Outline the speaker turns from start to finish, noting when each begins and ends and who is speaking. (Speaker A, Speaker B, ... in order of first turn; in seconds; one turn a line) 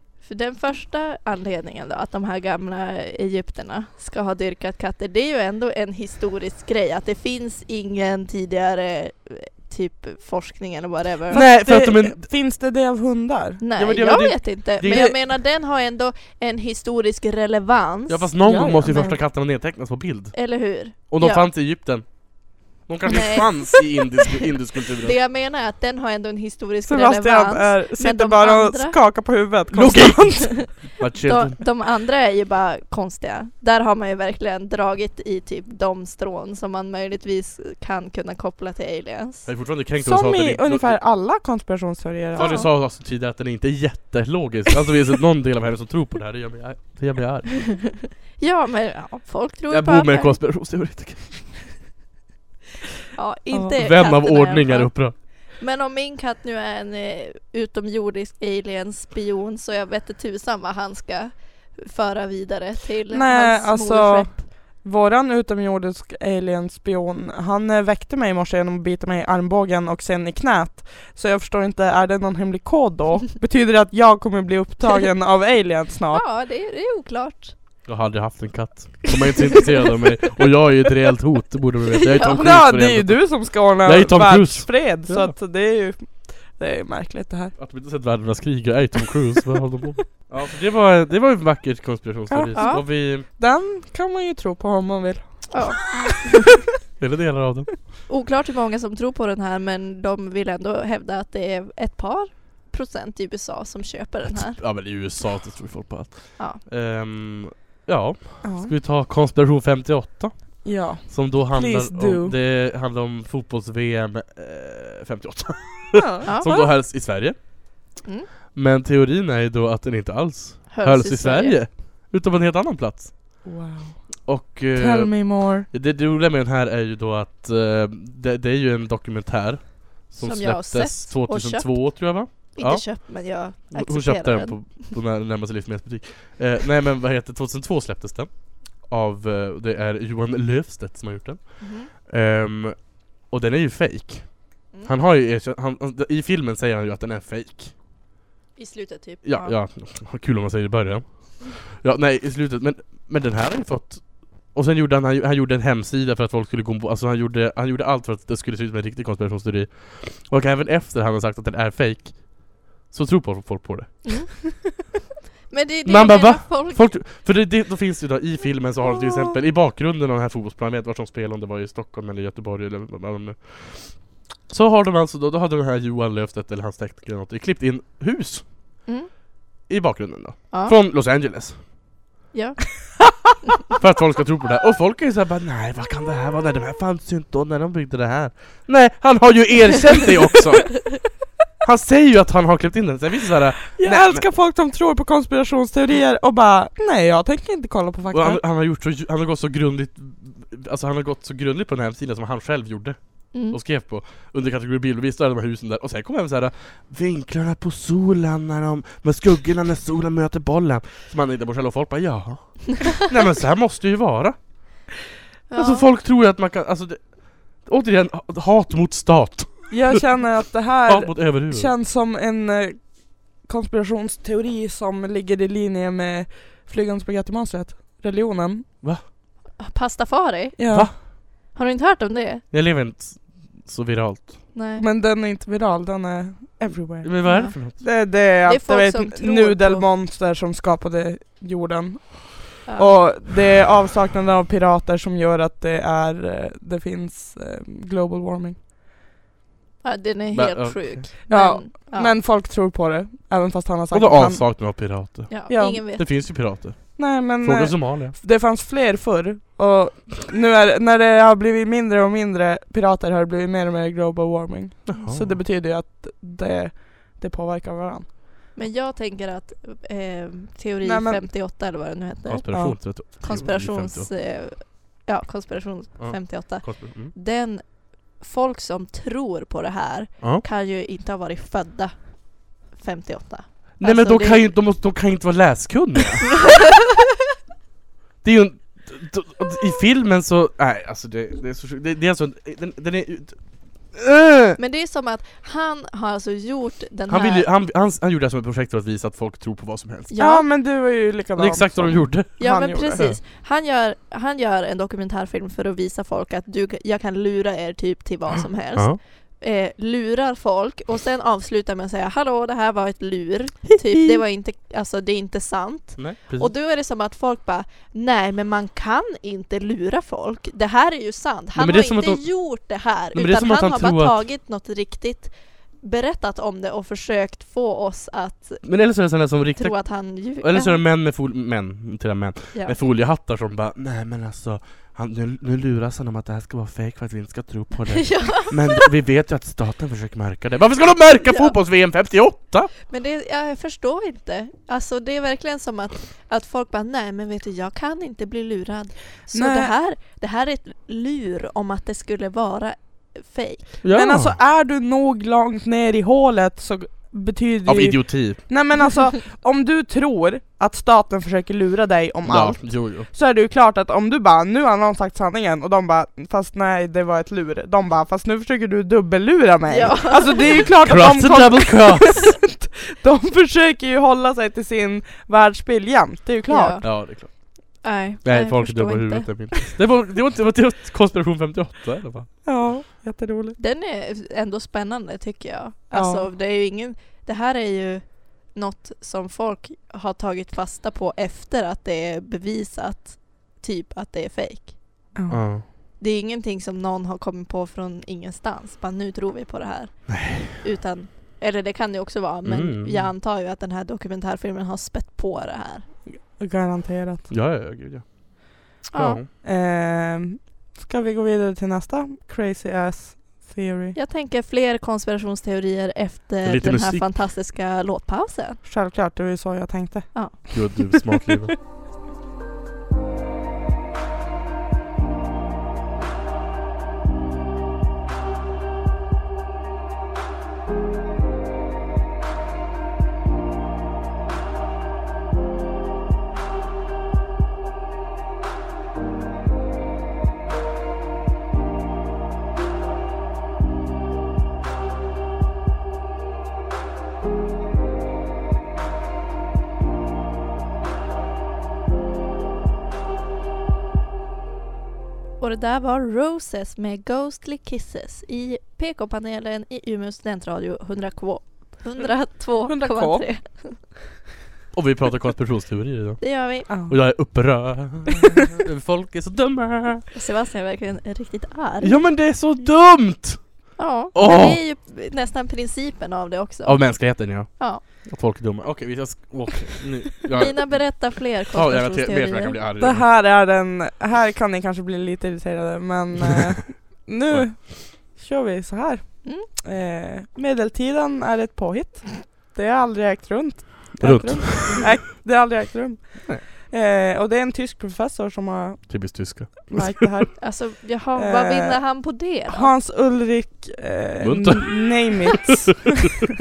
Speaker A: 0.2-11.4
Speaker B: 11.3-12.3
Speaker C: 11.3-13.6
Speaker A: 13.6-18.3
Speaker B: 13.8-15.2
Speaker C: 14.8-15.2
Speaker B: 18.1-25.2
Speaker C: 18.4-19.2
Speaker A: 20.3-21.5
Speaker A: 23.1-24.0
Speaker A: 25.0-29.0
Speaker C: 26.9-30.5
Speaker B: 29.7-31.6
Speaker A: 30.6-39.5
Speaker B: 39.5-41.0
Speaker C: 40.0-42.6
Speaker A: 42.4-42.7
Speaker B: 42.4-48.0
Speaker A: 48.3-50.4
Speaker B: 49.7-51.6
Speaker A: 53.1-64.4
Speaker B: 53.8-55.2
Speaker C: 63.1-76.2
Speaker A: 76.1-77.5
Speaker B: 77.8-85.3
Speaker A: 82.0-82.5
Speaker C: 82.4-87.5
Speaker B: 87.6-93.3
Speaker C: 92.3-96.3
Speaker A: 92.5-92.8
Speaker A: 95.5-96.3
Speaker B: 97.0-97.9
Speaker A: 98.1-104.6
Speaker B: 104.3-117.4
Speaker C: 108.4-108.7
Speaker C: 110.6-112.3
Speaker C: 115.9-116.3
Speaker A: 116.2-116.7
Speaker B: 118.5-123.2
Speaker A: 120.7-121.6
Speaker C: 123.4-124.2
Speaker B: 124.3-147.8
Speaker C: 124.8-125.7
Speaker A: 130.2-134.8
Speaker A: 141.6-141.9
Speaker A: 148.6-149.6
Speaker B: 149.2-164.3
Speaker A: 165.5-166.9
Speaker B: 165.9-178.5
Speaker B: 179.7-181.7
Speaker A: 182.3-182.7
Speaker B: 183.8-191.1
Speaker B: 191.6-194.2
Speaker C: 193.8-198.4
Speaker B: 198.1-214.8
Speaker A: 203.3-203.6
Speaker A: 215.5-215.9
Speaker B: 215.6-220.2
Speaker C: 219.7-228.7
Speaker B: 220.9-221.7
Speaker A: 229.6-232.4
Speaker C: 230.6-230.9
Speaker B: 232.5-234.5
Speaker A: 234.5-234.8
Speaker C: 234.8-248.6
Speaker B: 237.0-237.8
Speaker A: 237.2-237.8
Speaker A: 238.5-239.9
Speaker A: 242.7-243.0
Speaker A: 249.8-252.2
Speaker B: 250.3-251.1
Speaker C: 251.3-254.5
Speaker B: 253.9-258.2
Speaker A: 255.3-256.1
Speaker C: 255.5-255.9
Speaker C: 257.0-268.1
Speaker B: 264.9-265.4
Speaker A: 268.6-284.5
Speaker C: 270.8-271.2
Speaker B: 272.3-274.1
Speaker C: 272.5-272.8
Speaker B: 276.0-277.1
Speaker B: 283.8-286.4
Speaker B: 288.2-294.6
Speaker A: 294.6-297.5
Speaker B: 297.1-300.1
Speaker A: 300.1-300.5
Speaker C: 300.2-303.1
Speaker B: 301.4-302.4
Speaker A: 302.4-328.7
Speaker B: 316.0-316.5
Speaker B: 321.6-324.2
Speaker B: 328.6-342.7
Speaker A: 329.6-330.8
Speaker A: 337.9-338.9
Speaker A: 341.3-341.5
Speaker A: 342.9-353.7
Speaker C: 349.3-349.7
Speaker B: 353.8-354.4
Speaker C: 353.9-376.8
Speaker B: 357.7-358.4
Speaker B: 362.3-363.1
Speaker A: 369.7-370.6
Speaker B: 370.9-372.4
Speaker A: 376.5-377.2
Speaker B: 376.8-382.3
Speaker A: 377.8-379.6
Speaker C: 382.4-383.6
Speaker A: 383.6-395.1
Speaker C: 385.9-386.3
Speaker C: 395.1-395.4
Speaker B: 395.3-395.6
Speaker A: 396.0-405.9
Speaker B: 400.1-400.6
Speaker B: 402.4-403.1
Speaker C: 406.1-407.3
Speaker B: 407.3-408.3
Speaker A: 408.9-409.2
Speaker B: 408.9-409.3
Speaker C: 409.4-414.0
Speaker A: 413.9-418.6
Speaker B: 416.4-417.1
Speaker C: 418.6-420.8
Speaker B: 420.5-421.6
Speaker A: 455.4-463.8
Speaker C: 462.7-463.3
Speaker B: 464.7-470.1
Speaker A: 466.2-466.7
Speaker C: 466.7-467.0
Speaker A: 470.1-472.0
Speaker B: 471.8-474.6
Speaker A: 473.8-477.8
Speaker B: 476.6-483.1
Speaker A: 480.4-482.6
Speaker C: 482.8-500.5
Speaker B: 494.0-495.0
Speaker B: 498.9-500.1
Speaker A: 500.4-502.7
Speaker C: 501.1-501.9
Speaker C: 502.5-506.1
Speaker B: 504.2-505.5